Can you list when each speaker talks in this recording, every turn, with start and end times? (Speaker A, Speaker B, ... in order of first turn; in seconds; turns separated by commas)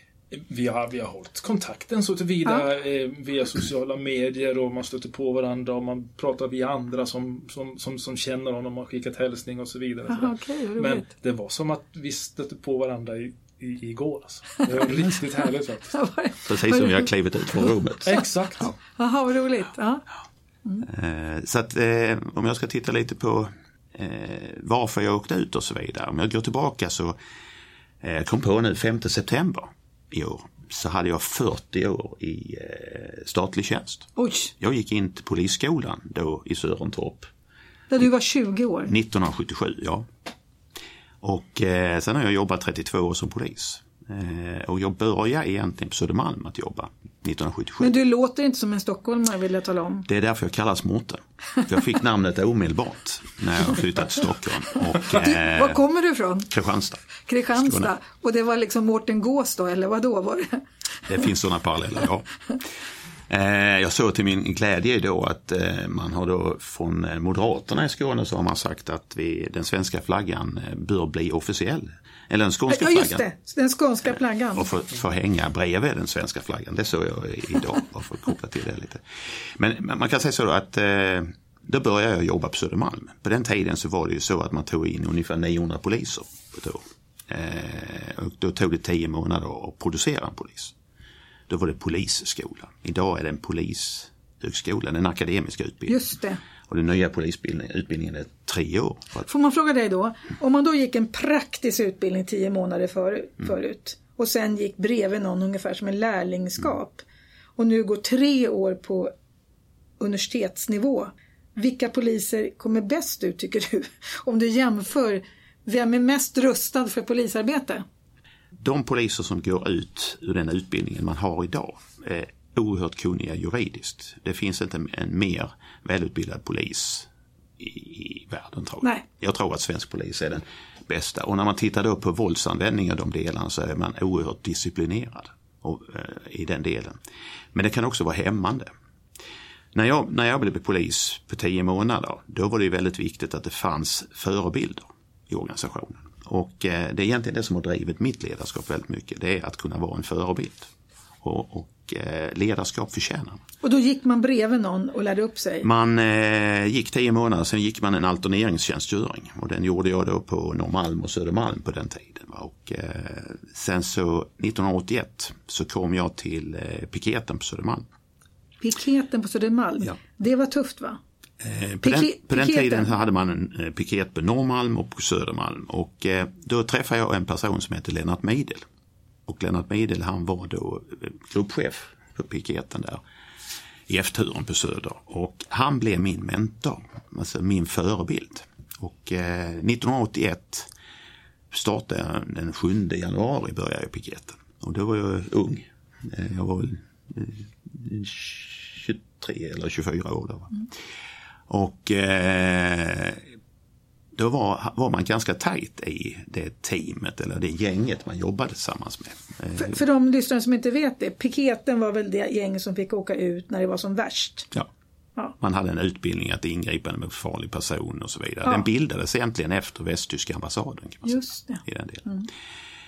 Speaker A: 0.3-16.0, Speaker B: 10.1-11.1, Speaker B: 15.9-17.1, Speaker C: 16.5-18.1, Speaker B: 17.7-18.2, Speaker A: 18.1-18.7, Speaker B: 19.0-20.1, Speaker C: 20.8-27.2, Speaker C: 28.0-34.1, Speaker B: 34.2-34.5, Speaker C: 34.6-37.3, Speaker B: 37.9-38.9, Speaker C: 38.9-40.1, Speaker C: 41.2-48.0, Speaker B: 47.8-50.1, Speaker C: 50.1-55.8, Speaker B: 55.1-56.5, Speaker C: 56.5-57.9, Speaker B: 57.3-60.6, Speaker C: 61.1-62.3, Speaker C: 63.3-73.2, Speaker B: 72.7-74.7, Speaker C: 74.1-90.7, Speaker C: 91.5-96.0, Speaker B: 95.9-96.4, Speaker C: 96.7-99.3, Speaker B: 99.3-107.0, Speaker B: 107.6-109.1, Speaker B: 110.0-117.8, Speaker C: 118.6-127.1, Speaker C: 127.6-137.0, Speaker C: 137.5-138.7, Speaker C: 139.7-150.7, Speaker C: 151.2-153.4, Speaker B: 153.6-155.7, Speaker C: 155.6-167.9, Speaker B: 168.6-171.0, Speaker C: 171.4-178.6, Speaker B: 171.8-172.9, Speaker C: 179.3-183.0, Speaker C: 183.9-190.7, Speaker C: 191.5-200.7, Speaker C: 201.5-203.3, Speaker C: 204.2-209.8, Speaker B: 209.6-214.5, Speaker C: 215.4-222.1, Speaker B: 221.0-222.3